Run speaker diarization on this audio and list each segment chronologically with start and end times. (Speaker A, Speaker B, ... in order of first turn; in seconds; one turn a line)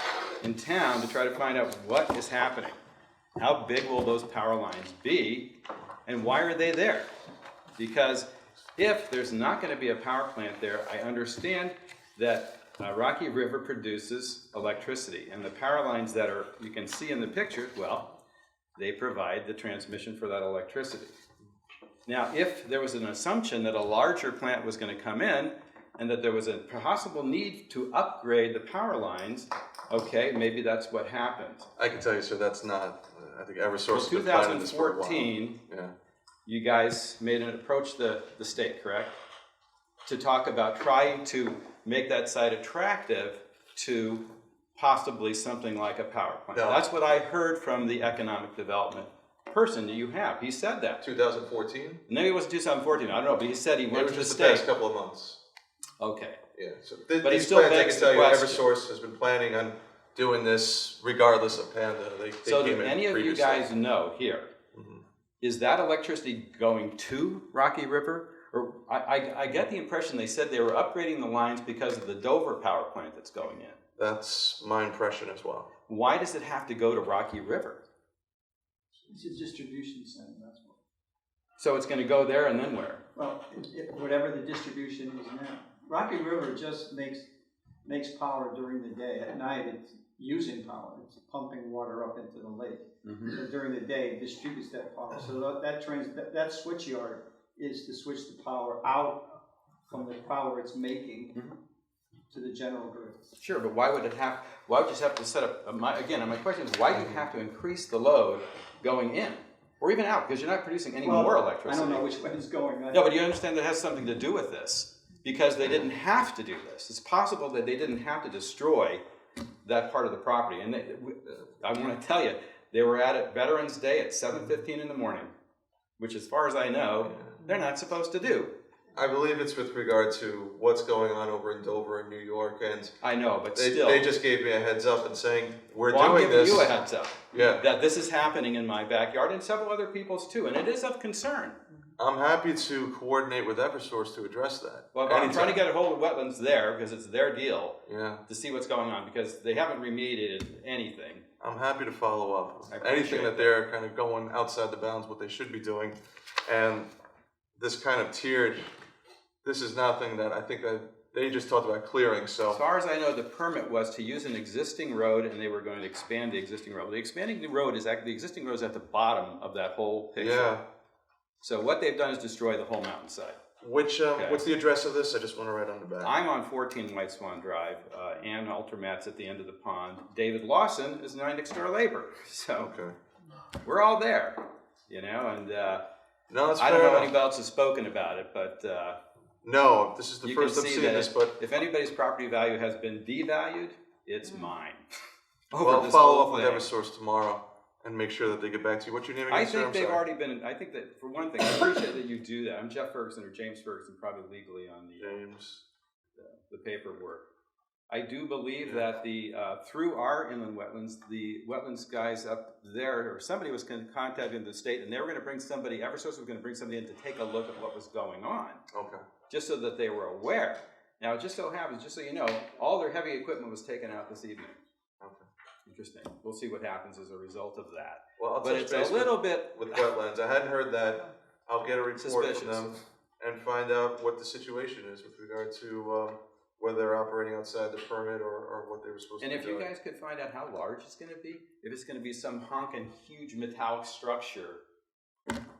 Speaker A: 0.4-2.8
Speaker A: 3.4-5.5
Speaker A: 6.0-7.1
Speaker A: 7.8-18.1
Speaker A: 18.8-21.1
Speaker A: 22.1-31.7
Speaker B: 31.8-35.9
Speaker A: 33.9-35.6
Speaker A: 36.5-39.1
Speaker A: 40.0-44.2
Speaker A: 44.8-51.0
Speaker B: 46.5-46.8
Speaker B: 51.0-52.0
Speaker A: 52.1-54.6
Speaker B: 53.9-55.4
Speaker A: 56.0-56.4
Speaker B: 56.5-63.7
Speaker A: 57.2-58.6
Speaker A: 62.4-64.5
Speaker B: 64.7-65.0
Speaker A: 65.4-73.8
Speaker B: 74.0-75.7
Speaker A: 75.9-77.8
Speaker C: 79.1-80.8
Speaker A: 81.6-83.0
Speaker C: 83.1-87.3
Speaker C: 87.8-99.4
Speaker A: 93.0-93.4
Speaker C: 99.9-101.3
Speaker C: 102.3-103.3
Speaker A: 103.4-112.0
Speaker C: 111.0-113.1
Speaker A: 112.9-119.0
Speaker A: 119.6-125.3
Speaker A: 126.0-128.5
Speaker B: 127.0-127.3
Speaker B: 128.9-133.0
Speaker A: 133.0-134.2
Speaker B: 133.5-136.7
Speaker A: 135.9-141.6
Speaker B: 137.3-137.6
Speaker B: 142.0-145.6
Speaker A: 144.9-151.2
Speaker B: 147.8-148.2
Speaker B: 151.4-156.9
Speaker A: 152.7-153.5
Speaker B: 157.6-158.7
Speaker B: 159.4-162.6
Speaker A: 162.5-170.5
Speaker B: 170.2-170.6
Speaker A: 171.4-173.4
Speaker B: 173.6-176.2
Speaker A: 174.1-174.5
Speaker A: 176.0-182.7
Speaker B: 182.6-182.9
Speaker A: 183.6-185.8
Speaker B: 186.3-187.1
Speaker A: 186.6-189.0
Speaker B: 189.4-191.4
Speaker A: 190.2-194.8
Speaker A: 195.5-196.7
Speaker B: 195.6-200.0
Speaker A: 199.3-205.2
Speaker B: 205.0-205.6
Speaker A: 206.2-207.3
Speaker A: 207.9-218.6
Speaker B: 208.6-208.9
Speaker B: 218.7-219.0
Speaker A: 219.3-224.6
Speaker A: 225.7-229.8
Speaker B: 228.2-239.7
Speaker A: 231.9-232.7
Speaker A: 239.2-244.6